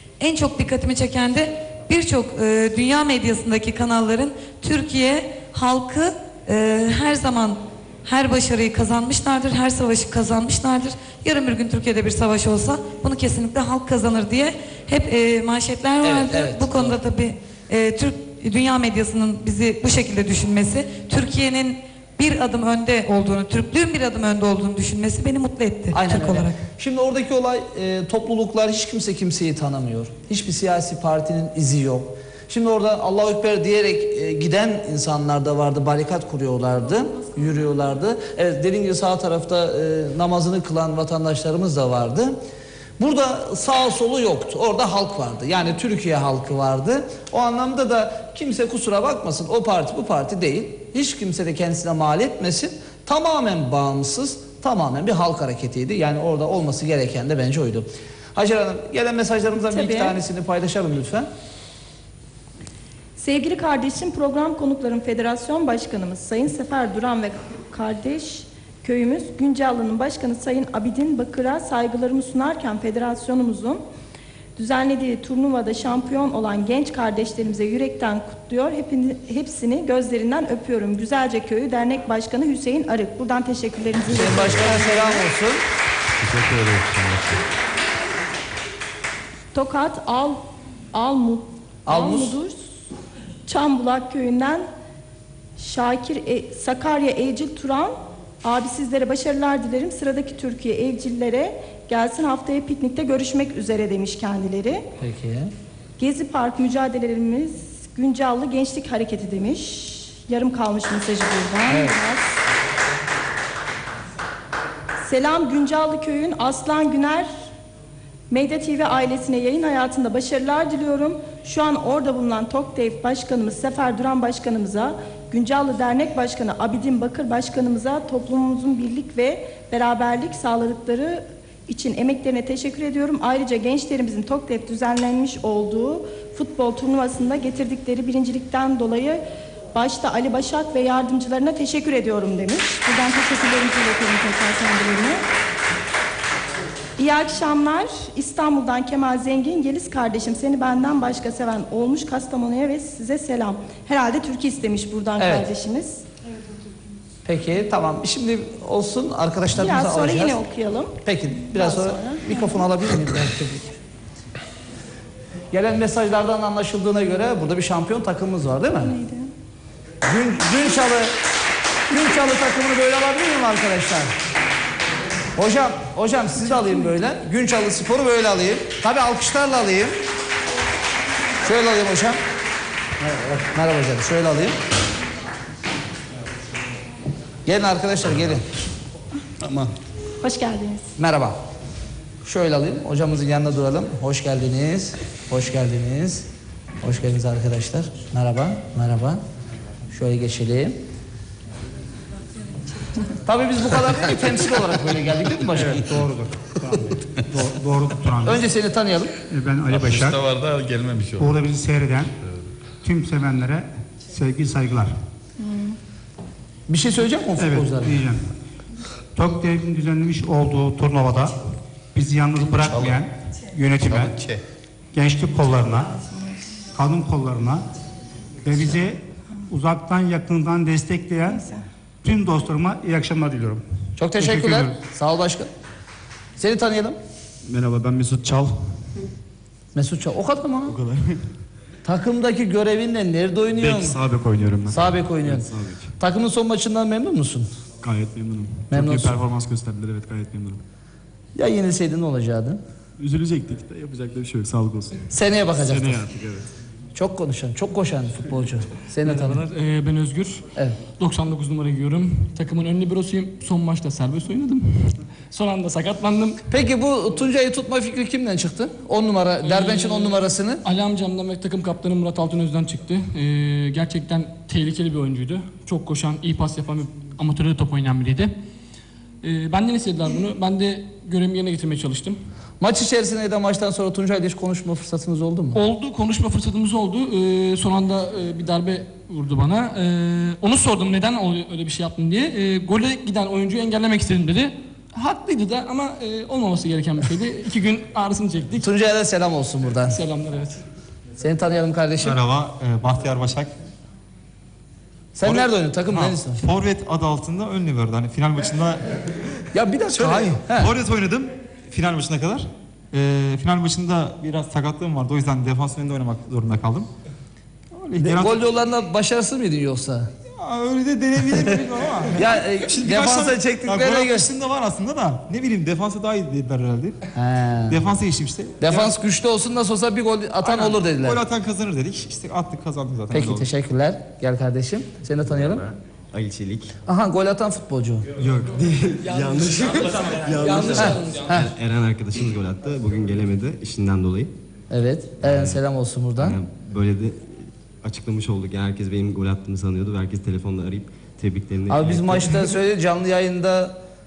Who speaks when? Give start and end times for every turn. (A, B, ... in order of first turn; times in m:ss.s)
0:00.2-0:26.6 A
0:16.0-0:17.0 B
0:25.9-0:42.4 B
0:43.0-1:01.3 B
0:59.7-1:00.2 C
1:03.2-1:13.8 C
1:14.6-1:25.2 C
1:24.1-1:25.6 B
1:26.2-1:27.4 D
1:29.5-1:32.6 C
1:31.9-1:32.3 B
1:33.5-1:34.7 C
1:35.6-1:44.9 C
1:45.0-1:45.5 B
1:46.0-1:52.4 C
1:51.7-1:52.0 B
1:55.0-1:57.3 C
1:58.3-2:19.2 C
2:19.7-2:25.2 C
2:27.0-2:36.0 C
2:35.2-2:35.5 B
2:37.2-2:40.4 B
2:39.6-2:41.0 C
2:41.0-2:43.8 B
2:41.5-2:42.6 C
2:45.5-2:48.9 B
2:48.8-2:49.3 C
2:50.0-2:51.1 B
2:51.9-2:54.1 B
2:55.4-3:00.0 B
3:01.4-3:02.2 B
3:03.5-3:04.6 B
3:07.5-3:08.4 B
3:09.4-3:09.7 D
3:10.2-3:10.9 C
3:11.0-3:11.4 B
3:12.2-3:16.3 B
3:16.8-3:19.2 B
3:19.9-3:20.8 B
3:23.3-3:25.9 B
3:25.6-3:28.4 E
3:28.2-3:29.1 B
3:29.3-3:30.2 E
3:29.7-3:31.3 D
3:31.2-3:32.1 E
3:32.8-3:34.9 E
3:35.4-3:35.8 C
3:36.7-3:38.0 B
3:37.4-3:38.2 E
3:39.2-3:41.4 E
3:41.9-3:44.2 E
3:42.6-3:43.0 D
3:43.8-3:44.4 D
3:44.9-3:46.0 E
3:46.7-3:47.7 E
3:48.4-3:51.5 E
3:52.0-3:53.6 E
3:54.0-3:55.5 B
3:54.2-3:54.8 E
3:56.4-3:57.0 B
3:57.5-3:58.6 F
3:59.8-4:00.8 B
4:00.7-4:01.2 F
4:01.8-4:04.0 B
4:03.6-4:05.8 F
4:04.7-4:05.5 B
4:06.0-4:07.5 B
4:07.8-4:10.6 F
4:08.7-4:09.2 B
4:11.4-4:12.6 B
4:13.0-4:16.5 F
4:15.1-4:16.1 B
4:17.0-4:19.4 B
4:19.0-4:26.4 G
4:26.5-4:30.6 B
4:29.4-4:38.4 G
4:39.2-4:42.2 G
4:42.6-4:45.6 B
4:45.5-4:58.7 G
4:58.6-5:00.0 B
4:59.9-5:00.6 G
5:01.2-5:02.2 B
5:02.0-5:03.5 H
5:05.2-5:06.4 B
5:05.2-5:08.8 H
5:09.5-5:10.7 B
5:09.9-5:16.9 H
5:17.7-5:18.4 H
5:18.0-5:20.1 B
5:20.4-5:27.0 H
5:22.2-5:24.3 B
5:27.2-5:27.8 B
5:27.7-5:28.9 H
5:28.6-5:31.2 B
5:30.4-5:33.5 H
5:33.1-5:35.6 B
5:35.4-5:36.8 I
5:36.9-5:38.1 B
5:38.2-5:44.3 I
5:39.1-5:41.3 H
5:40.5-5:40.8 G
5:40.7-5:41.5 B
5:44.7-5:46.4 B
5:45.2-5:45.6 I
5:46.2-5:52.5 I
5:51.7-5:53.8 B